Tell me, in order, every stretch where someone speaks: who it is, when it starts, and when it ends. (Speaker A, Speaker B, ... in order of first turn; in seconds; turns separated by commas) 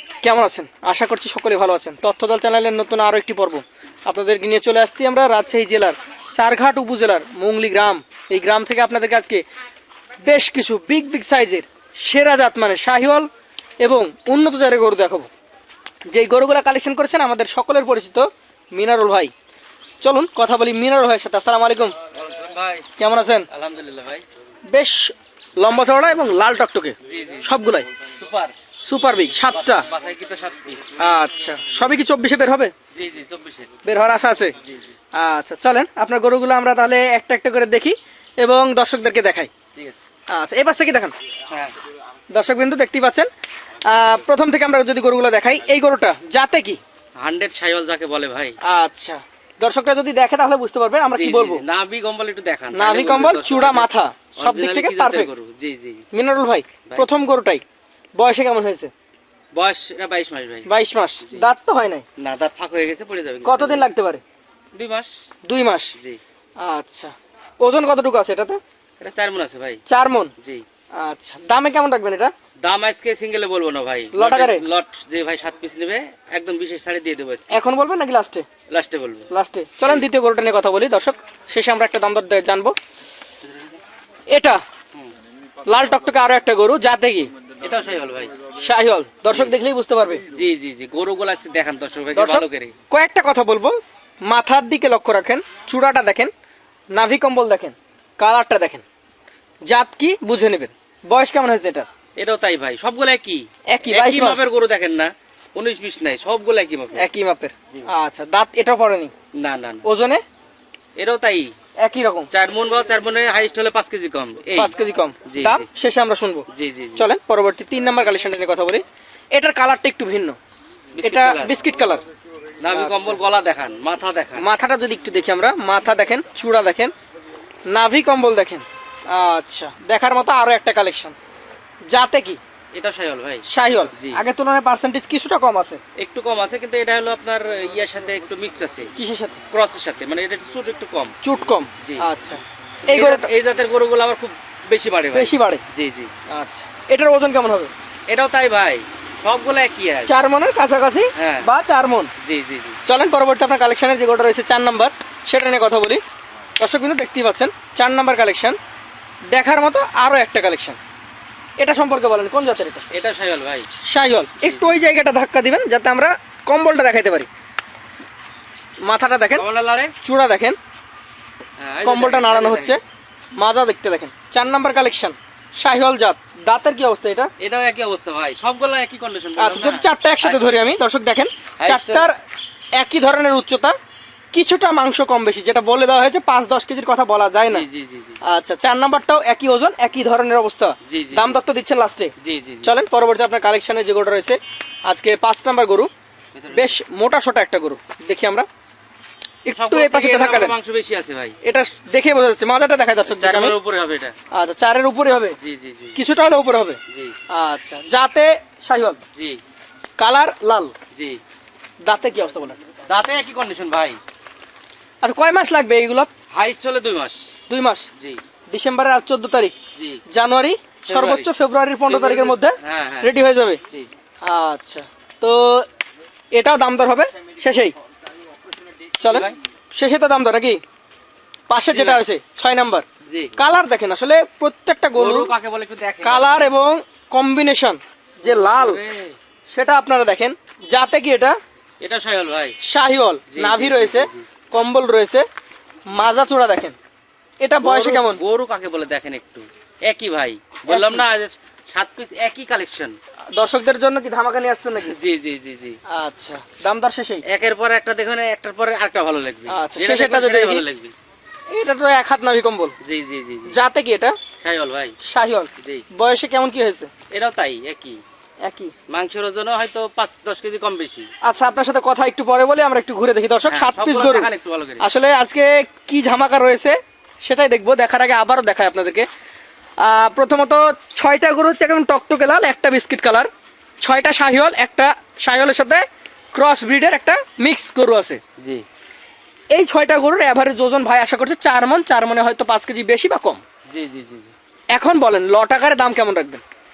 Speaker A: 0.2-9.4, Speaker A: 10.2-13.3, Speaker A: 13.8-15.3, Speaker A: 16.1-19.3, Speaker A: 20.0-21.9, Speaker B: 22.1-22.9, Speaker A: 23.0-23.5, Speaker B: 23.5-24.2, Speaker A: 24.7-27.9, Speaker B: 27.1-27.5, Speaker B: 28.1-28.5, Speaker A: 28.8-29.9, Speaker B: 29.5-30.9, Speaker A: 31.0-32.7, Speaker B: 32.9-33.7, Speaker A: 33.9-34.5, Speaker A: 35.2-39.5, Speaker A: 40.3-41.1, Speaker A: 42.3-43.3, Speaker A: 43.8-46.8, Speaker B: 47.2-48.5, Speaker A: 48.7-51.6, Speaker B: 51.1-56.0, Speaker A: 52.7-55.3, Speaker A: 56.1-57.6, Speaker A: 58.2-58.9, Speaker B: 59.5-60.7, Speaker A: 60.7-62.0, Speaker B: 62.2-63.9, Speaker A: 63.4-64.2, Speaker B: 64.7-65.1, Speaker A: 65.5-65.9, Speaker A: 66.6-68.6, Speaker B: 69.0-69.8, Speaker A: 69.9-70.3, Speaker A: 71.0-72.3, Speaker B: 72.6-77.6, Speaker A: 74.1-74.6, Speaker A: 77.5-78.5, Speaker B: 78.7-79.3, Speaker A: 79.3-82.7, Speaker B: 83.4-83.8, Speaker A: 84.3-84.6, Speaker A: 85.7-87.3, Speaker B: 87.6-88.3, Speaker A: 88.6-90.2, Speaker B: 90.3-92.7, Speaker A: 92.1-93.8, Speaker A: 94.3-96.3, Speaker A: 96.9-98.8, Speaker A: 99.7-101.9, Speaker B: 102.2-107.1, Speaker A: 103.7-104.4, Speaker A: 107.0-109.1, Speaker B: 109.3-109.8, Speaker A: 109.8-110.2, Speaker B: 111.0-111.5, Speaker A: 111.8-112.3, Speaker B: 112.3-114.7, Speaker A: 114.6-116.5, Speaker B: 115.3-115.7, Speaker B: 116.5-117.1, Speaker A: 117.0-120.4, Speaker B: 121.0-121.6, Speaker A: 121.0-122.0, Speaker B: 122.6-124.5, Speaker A: 122.7-123.2, Speaker A: 124.4-126.9, Speaker A: 127.7-131.2, Speaker A: 131.9-132.4, Speaker B: 132.7-133.4, Speaker A: 133.5-135.8, Speaker B: 133.9-134.2, Speaker B: 136.0-138.9, Speaker A: 139.0-139.4, Speaker B: 139.5-141.2, Speaker A: 141.2-143.3, Speaker B: 141.8-142.1, Speaker B: 142.9-146.1, Speaker A: 145.1-145.6, Speaker A: 146.3-147.7, Speaker B: 148.1-150.1, Speaker A: 150.1-152.1, Speaker B: 151.2-151.5, Speaker B: 152.2-152.8, Speaker A: 152.9-156.0, Speaker A: 156.6-158.6, Speaker A: 159.3-160.8, Speaker A: 161.6-162.9, Speaker B: 162.9-163.7, Speaker A: 163.9-167.3, Speaker B: 164.4-164.8, Speaker A: 168.8-169.4, Speaker B: 169.3-169.9, Speaker A: 170.0-170.6, Speaker B: 171.6-172.8, Speaker A: 171.8-172.8, Speaker A: 173.4-177.3, Speaker B: 177.4-180.5, Speaker A: 179.4-182.2, Speaker B: 181.6-182.1, Speaker A: 182.8-183.8, Speaker A: 184.3-187.7, Speaker B: 187.5-188.2, Speaker A: 188.3-192.1, Speaker B: 190.9-191.4, Speaker B: 192.2-192.7, Speaker A: 192.6-195.9, Speaker B: 196.3-196.8, Speaker A: 196.5-198.5, Speaker A: 199.4-200.6, Speaker B: 199.5-201.4, Speaker A: 201.4-203.6, Speaker B: 203.1-204.2, Speaker A: 204.3-205.4, Speaker B: 205.4-206.0, Speaker A: 206.0-206.8, Speaker A: 207.3-209.0, Speaker B: 209.2-209.4, Speaker A: 210.0-210.7, Speaker B: 210.9-211.2, Speaker A: 211.8-212.6, Speaker B: 212.9-214.0, Speaker A: 215.0-216.1, Speaker B: 216.3-217.3, Speaker A: 217.5-217.9, Speaker A: 218.5-219.5, Speaker B: 219.8-220.0, Speaker A: 220.1-223.6, Speaker B: 220.9-221.3, Speaker B: 221.9-223.1, Speaker A: 224.2-225.7, Speaker A: 226.3-227.8, Speaker A: 229.0-230.6, Speaker B: 229.0-229.4, Speaker A: 231.5-232.8, Speaker B: 231.7-232.0, Speaker B: 233.1-233.4, Speaker A: 233.4-235.3, Speaker B: 234.9-236.5, Speaker A: 236.0-238.8, Speaker B: 238.2-239.2, Speaker A: 239.5-241.4, Speaker B: 241.8-242.6, Speaker A: 242.6-245.2, Speaker B: 243.3-244.3, Speaker A: 245.9-246.8, Speaker A: 247.4-248.2, Speaker B: 247.6-252.9, Speaker A: 250.7-251.1, Speaker A: 253.3-255.0, Speaker B: 254.8-255.8, Speaker A: 255.9-257.2, Speaker B: 257.3-260.9, Speaker A: 259.5-260.6, Speaker A: 261.5-262.8, Speaker B: 262.8-263.6, Speaker A: 263.5-264.2, Speaker B: 264.4-264.9, Speaker A: 265.0-266.9, Speaker B: 267.1-268.0, Speaker A: 268.4-268.7, Speaker B: 268.9-271.1, Speaker A: 271.2-279.1, Speaker B: 273.5-274.9, Speaker A: 279.8-283.3, Speaker A: 283.8-288.2, Speaker B: 288.4-288.6, Speaker A: 289.5-293.4, Speaker B: 293.7-294.3, Speaker A: 294.7-296.4